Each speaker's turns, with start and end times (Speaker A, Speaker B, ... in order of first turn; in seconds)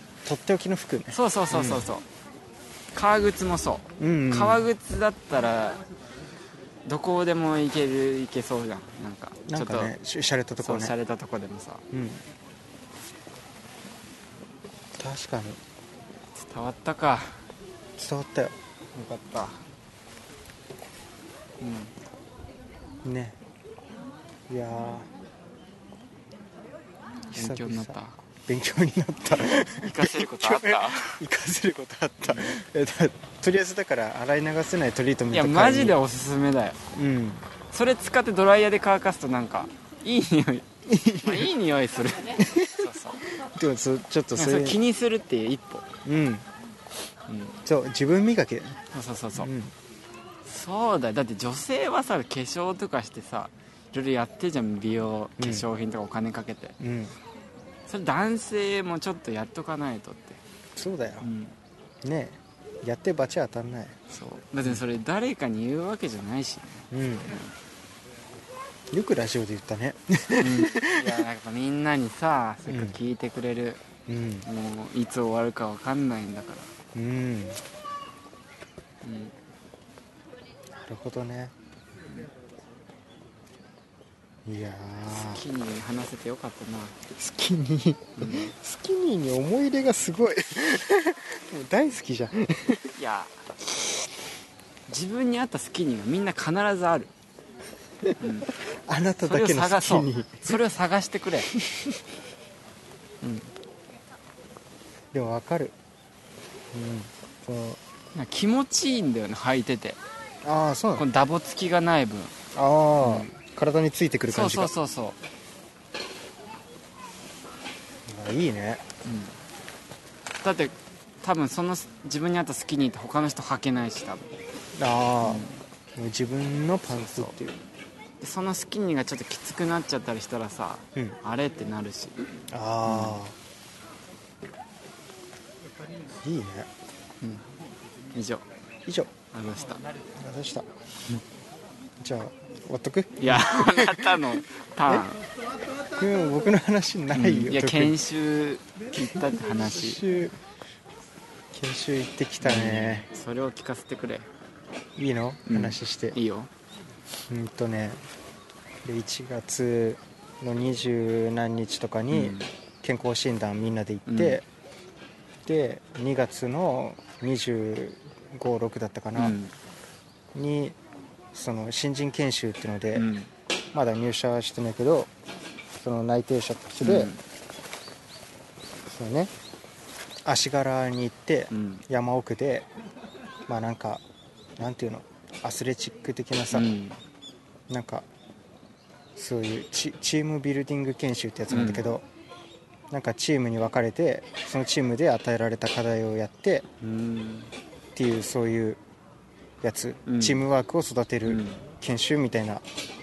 Speaker A: 0.2-1.9, 4.0-4.6, 9.5-10.9, 11.9-12.2, 15.0-15.6, 18.0-18.6, 23.0-23.4, 24.5-25.1, 27.3-36.0, 37.0-37.5, 40.9-41.5, 42.4-44.8, 46.0-46.5, 47.6-48.8, 49.4-49.7, 55.4-55.7, 56.8-57.1, 60.8-61.3, 62.0-64.0, 66.9-67.3, 68.9-71.2, 72.7-73.0, 74.1-74.5, 77.0-77.6, 80.7-81.5, 84.5-85.4, 87.2-92.9, 98.9-100.6, 101.6-102.0, 103.2-103.5, 105.1-105.8, 106.7-107.8, 110.4-111.0, 112.5-114.7, 118.1-118.8, 124.8-127.6, 132.5-133.4, 136.2-136.7, 138.9-139.1, 140.2-140.7, 142.0-145.1, 146.0-148.0, 149.5-150.3, 151.5-153.1, 155.0-156.2, 157.3-158.0, 158.8-164.4, 165.4-169.4, 170.3-170.8, 171.3-173.1, 173.7-175.1, 175.8-177.1, 178.9-179.3, 180.2-182.7, 183.5-184.0, 184.6-186.7, 187.7-188.1, 189.2-192.1, 192.9-196.7, 197.9-198.8, 199.6-202.7
Speaker B: 1.1-2.0, 2.9-5.8, 6.8-9.9, 10.6-11.8, 16.4-17.4, 19.0-19.6, 21.6-21.9, 27.3-28.2, 29.8-31.2, 35.3-36.8, 37.7-40.7, 41.2-43.2, 44.4-45.9, 47.3-47.6, 48.9-49.5, 50.5-56.8, 57.9-60.4, 61.2-61.5, 64.1-67.5, 70.4-73.8, 74.5-76.7, 79.0-79.3, 85.1-87.0, 88.2-88.5, 93.0-93.3, 94.9-97.1, 98.2-98.5, 99.2-101.5, 108.1-110.0, 111.0-112.3, 113.0-113.4, 114.3-115.2, 119.0-119.4, 120.4-124.3, 125.2-125.6, 126.9-127.4, 128.2-132.3, 132.8-133.2, 138.1-138.4, 139.3-139.8, 143.2-145.2, 147.1-150.0, 152.4-154.3, 155.5-156.5, 162.1-162.5, 164.1-164.4, 169.2-169.5, 172.9-173.3, 176.8-177.2, 181.5-181.8, 186.5-187.0, 191.5-191.9, 196.8-197.5, 200.1-200.4, 201.2-201.6